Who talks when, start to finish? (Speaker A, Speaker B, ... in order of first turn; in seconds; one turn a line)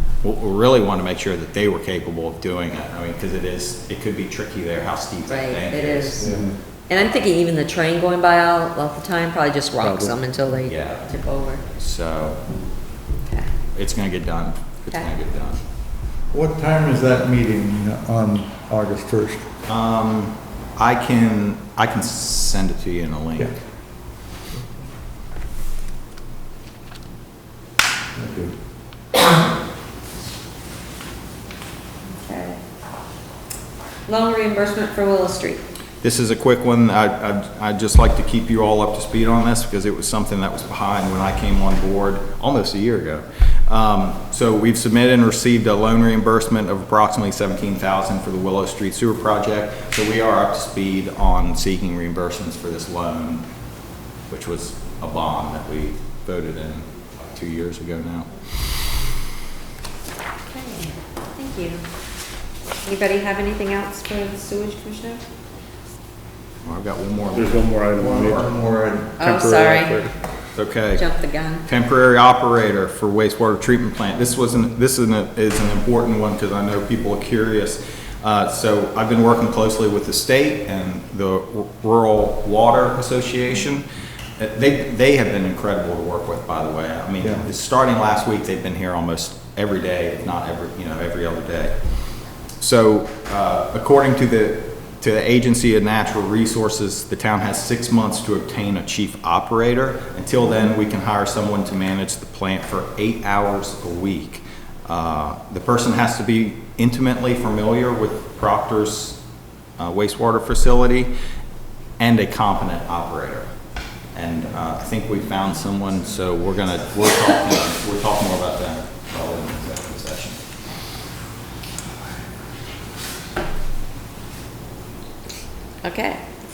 Speaker A: 0.2-6.4
Speaker B: 5.3-6.4
Speaker C: 6.2-6.5
Speaker B: 6.9-11.6
Speaker A: 10.6-11.1
Speaker A: 11.7-12.4
Speaker A: 13.7-15.6
Speaker C: 16.3-19.4
Speaker A: 19.7-23.6
Speaker C: 28.1-28.5
Speaker B: 32.1-32.6
Speaker B: 34.1-35.6
Speaker A: 36.0-53.5
Speaker A: 54.3-58.3
Speaker B: 60.5-61.8
Speaker B: 62.8-65.2
Speaker A: 66.6-67.7
Speaker D: 67.3-68.5
Speaker C: 68.0-69.2
Speaker B: 69.2-70.0
Speaker D: 69.2-70.1
Speaker A: 70.5-71.0
Speaker B: 70.9-71.6
Speaker A: 71.6-83.8
Speaker A: 84.4-91.8
Speaker C: 87.2-87.5
Speaker A: 92.6-109.2
Speaker A: 109.8-111.1
Speaker A: 112.0-113.5
Speaker A: 114.1-120.4
Speaker B: 125.8-126.2